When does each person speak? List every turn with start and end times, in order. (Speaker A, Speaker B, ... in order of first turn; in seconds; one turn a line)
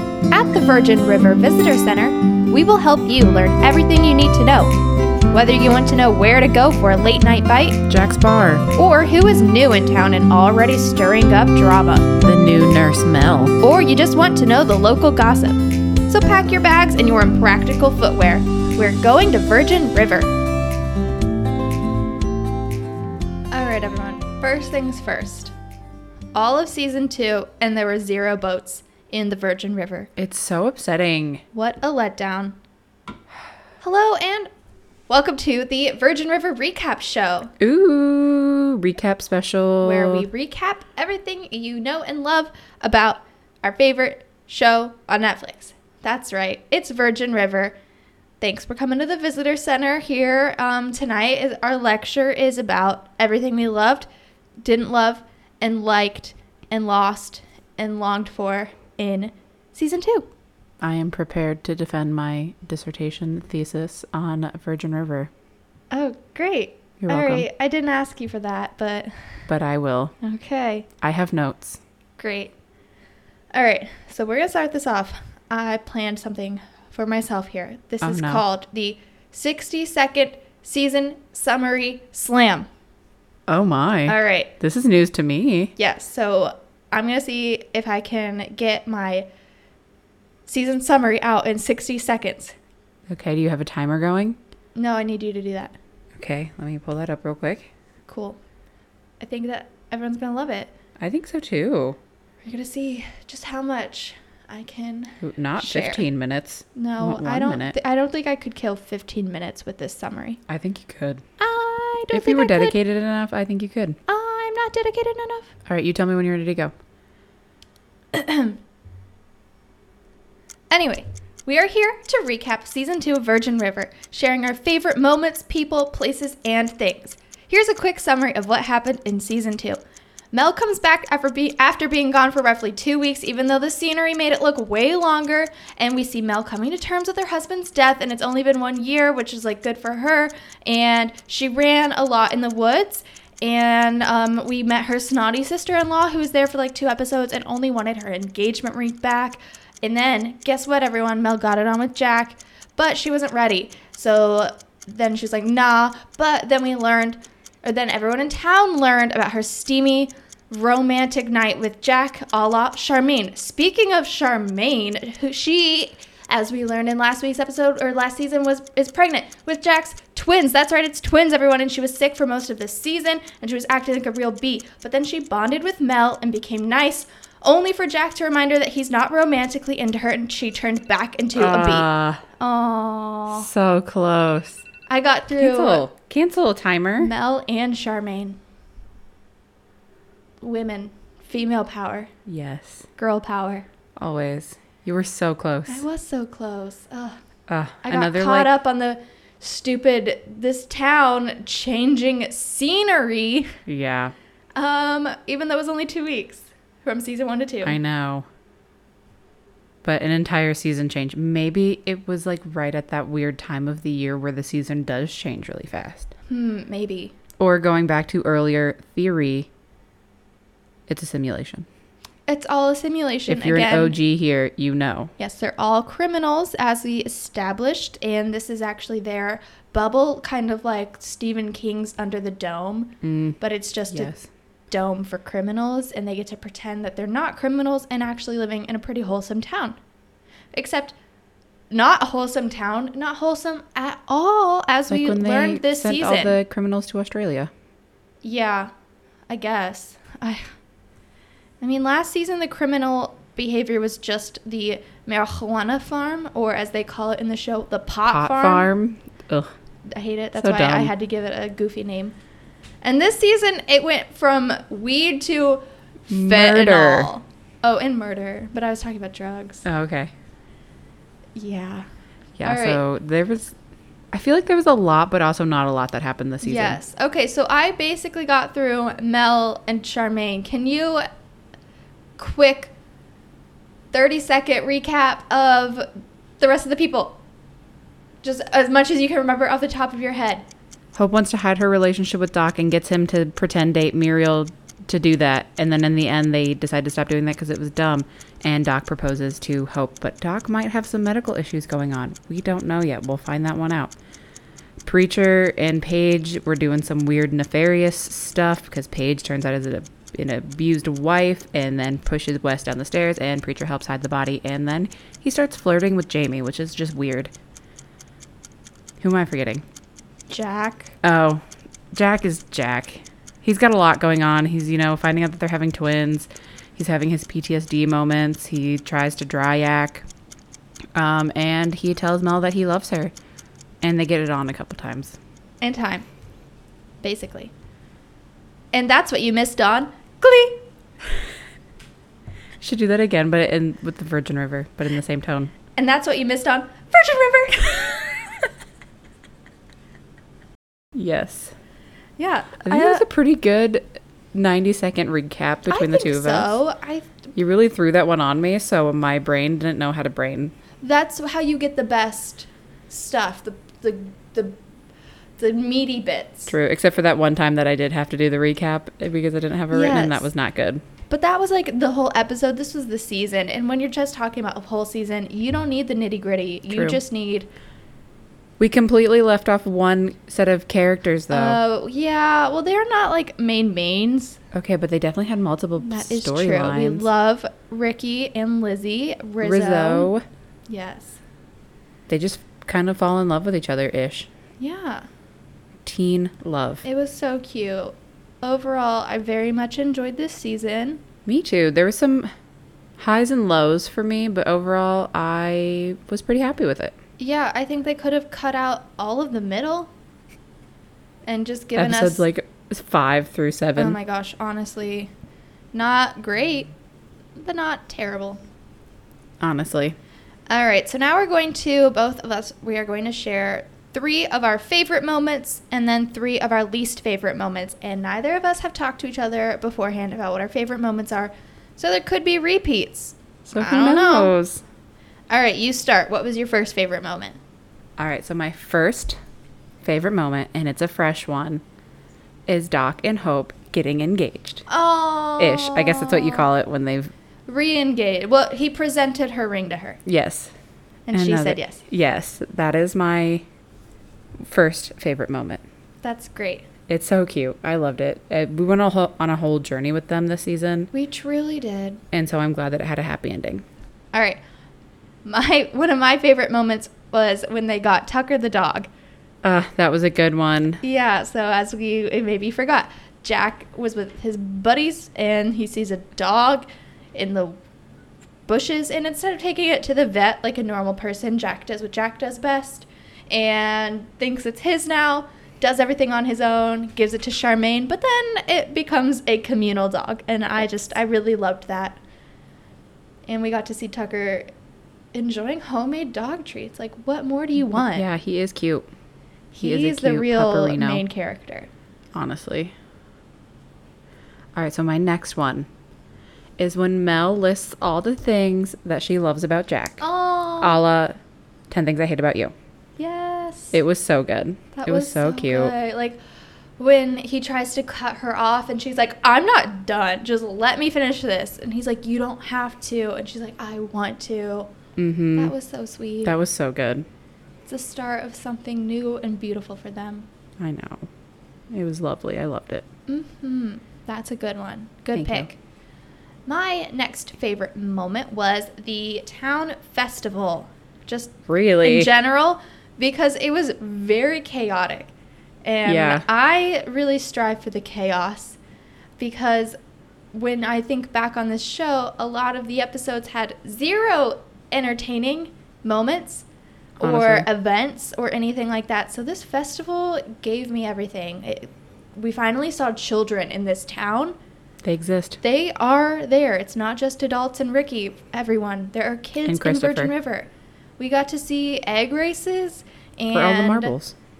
Speaker A: 0.3-4.7
Speaker A: 5.3-7.8
Speaker B: 7.9-8.7
Speaker A: 8.8-12.1
Speaker B: 12.2-13.6
Speaker A: 13.6-20.3
Speaker A: 23.5-25.5
Speaker A: 26.4-30.1
Speaker B: 30.2-31.4
Speaker A: 31.5-32.6
Speaker A: 33.8-34.5
Speaker A: 35.1-37.5
Speaker B: 37.6-40.3
Speaker A: 39.8-47.8
Speaker A: 48.4-54.1
Speaker A: 54.6-60.3
Speaker B: 60.8-65.3
Speaker A: 65.9-69.5
Speaker B: 67.0-67.5
Speaker B: 69.5-70.2
Speaker A: 70.2-70.9
Speaker B: 71.0-71.8
Speaker A: 72.2-72.5
Speaker A: 73.5-82.7
Speaker B: 78.0-78.4
Speaker B: 83.5-85.7
Speaker A: 84.1-84.5
Speaker A: 85.8-89.3
Speaker A: 90.5-92.5
Speaker B: 93.1-94.4
Speaker A: 94.8-95.8
Speaker B: 96.2-97.7
Speaker A: 98.1-98.4
Speaker A: 99.2-100.7
Speaker B: 101.0-102.0
Speaker A: 102.5-106.0
Speaker B: 105.2-107.8
Speaker A: 106.8-110.4
Speaker B: 110.5-111.2
Speaker A: 111.4-112.8
Speaker B: 112.1-114.0
Speaker A: 114.1-115.6
Speaker B: 115.7-116.7
Speaker A: 118.1-118.6
Speaker A: 120.7-129.8
Speaker A: 130.3-183.5
Speaker B: 181.3-182.2
Speaker B: 183.3-184.6
Speaker A: 184.9-185.8
Speaker B: 185.4-187.1
Speaker A: 187.0-188.4
Speaker A: 190.4-192.1
Speaker B: 192.3-192.9
Speaker A: 193.0-193.7
Speaker B: 194.0-195.8
Speaker A: 195.7-197.2
Speaker B: 197.5-198.6
Speaker A: 197.8-203.6
Speaker B: 203.7-204.1
Speaker A: 204.6-207.8
Speaker B: 207.6-208.3
Speaker B: 209.8-216.1
Speaker A: 216.3-217.2
Speaker B: 217.4-219.5
Speaker B: 220.9-221.7
Speaker A: 222.3-224.0
Speaker B: 223.3-225.1
Speaker A: 225.2-234.2
Speaker B: 233.0-233.4
Speaker B: 233.9-234.3
Speaker A: 234.7-239.8
Speaker A: 240.5-241.0
Speaker A: 241.7-246.4
Speaker B: 244.9-247.5
Speaker A: 248.2-248.7
Speaker A: 249.3-250.5
Speaker A: 251.6-258.7
Speaker B: 258.1-259.5
Speaker A: 259.9-262.2
Speaker B: 260.4-260.9
Speaker A: 262.8-269.6
Speaker B: 266.1-267.1
Speaker B: 269.6-270.1
Speaker A: 271.4-271.9
Speaker B: 272.4-273.6
Speaker A: 272.4-272.8
Speaker B: 274.1-276.8
Speaker A: 276.4-281.1
Speaker A: 282.2-282.7
Speaker A: 283.9-285.9
Speaker A: 286.4-287.2
Speaker A: 288.2-290.5
Speaker B: 290.9-303.9
Speaker B: 304.8-317.3
Speaker B: 319.0-319.6
Speaker A: 320.3-320.9
Speaker B: 321.0-321.4
Speaker B: 321.9-330.1
Speaker B: 330.9-333.1
Speaker B: 333.8-335.2
Speaker A: 335.6-336.1
Speaker A: 337.0-337.5
Speaker A: 338.7-340.6
Speaker B: 342.6-345.5
Speaker A: 345.8-348.4
Speaker B: 350.9-351.5
Speaker A: 352.2-353.1
Speaker B: 352.6-356.6
Speaker A: 355.7-357.1
Speaker B: 357.4-360.6
Speaker A: 360.8-364.6
Speaker A: 365.4-366.5
Speaker B: 366.5-370.8
Speaker A: 369.7-370.3
Speaker A: 371.1-377.5
Speaker B: 376.7-377.0
Speaker B: 378.6-381.6
Speaker A: 381.3-384.4
Speaker B: 384.5-387.1
Speaker A: 385.8-390.1
Speaker B: 389.4-390.2
Speaker A: 390.7-391.2
Speaker B: 392.1-394.3
Speaker A: 394.6-395.1
Speaker B: 395.8-396.8
Speaker A: 396.8-401.0
Speaker B: 401.3-402.3
Speaker B: 403.0-407.0
Speaker A: 407.2-409.9
Speaker A: 411.3-412.2
Speaker B: 411.8-414.0
Speaker A: 413.8-415.1
Speaker A: 415.7-416.7
Speaker A: 417.4-418.4
Speaker B: 419.4-420.0
Speaker A: 420.5-434.4
Speaker B: 433.4-434.6
Speaker A: 435.3-437.4
Speaker B: 438.0-439.2
Speaker B: 439.8-441.6
Speaker B: 442.5-444.6
Speaker A: 444.7-446.5
Speaker B: 445.4-447.1
Speaker A: 447.5-450.0
Speaker B: 450.1-450.5
Speaker A: 451.1-451.8
Speaker B: 451.1-453.4
Speaker B: 454.4-455.6
Speaker A: 456.0-456.7
Speaker B: 456.9-460.9
Speaker A: 460.9-462.0
Speaker B: 462.1-463.6
Speaker A: 464.1-464.4
Speaker A: 465.2-468.9
Speaker B: 469.4-470.8
Speaker A: 470.8-477.6
Speaker A: 478.5-492.0
Speaker A: 493.3-494.5
Speaker A: 495.1-498.1
Speaker B: 497.7-498.9
Speaker A: 499.5-501.7
Speaker B: 499.6-501.0
Speaker B: 502.1-502.7
Speaker B: 504.6-505.7
Speaker B: 506.6-510.0
Speaker A: 510.0-510.8
Speaker B: 510.6-511.2
Speaker B: 511.7-512.5
Speaker A: 513.0-513.8
Speaker B: 513.7-515.7
Speaker A: 514.8-516.2
Speaker A: 516.8-524.7
Speaker B: 525.0-525.5
Speaker A: 525.4-526.3
Speaker B: 526.2-527.1
Speaker A: 527.7-530.3
Speaker B: 530.6-531.1
Speaker B: 531.7-532.9
Speaker A: 533.1-535.6
Speaker B: 535.1-535.5
Speaker A: 536.5-545.1
Speaker B: 541.5-542.1
Speaker A: 545.6-548.6
Speaker B: 545.9-546.3
Speaker A: 549.2-549.8
Speaker A: 550.3-556.5
Speaker A: 557.0-564.4
Speaker B: 557.0-557.5
Speaker B: 564.8-565.4
Speaker A: 565.4-574.0
Speaker B: 569.5-570.1
Speaker B: 573.3-574.2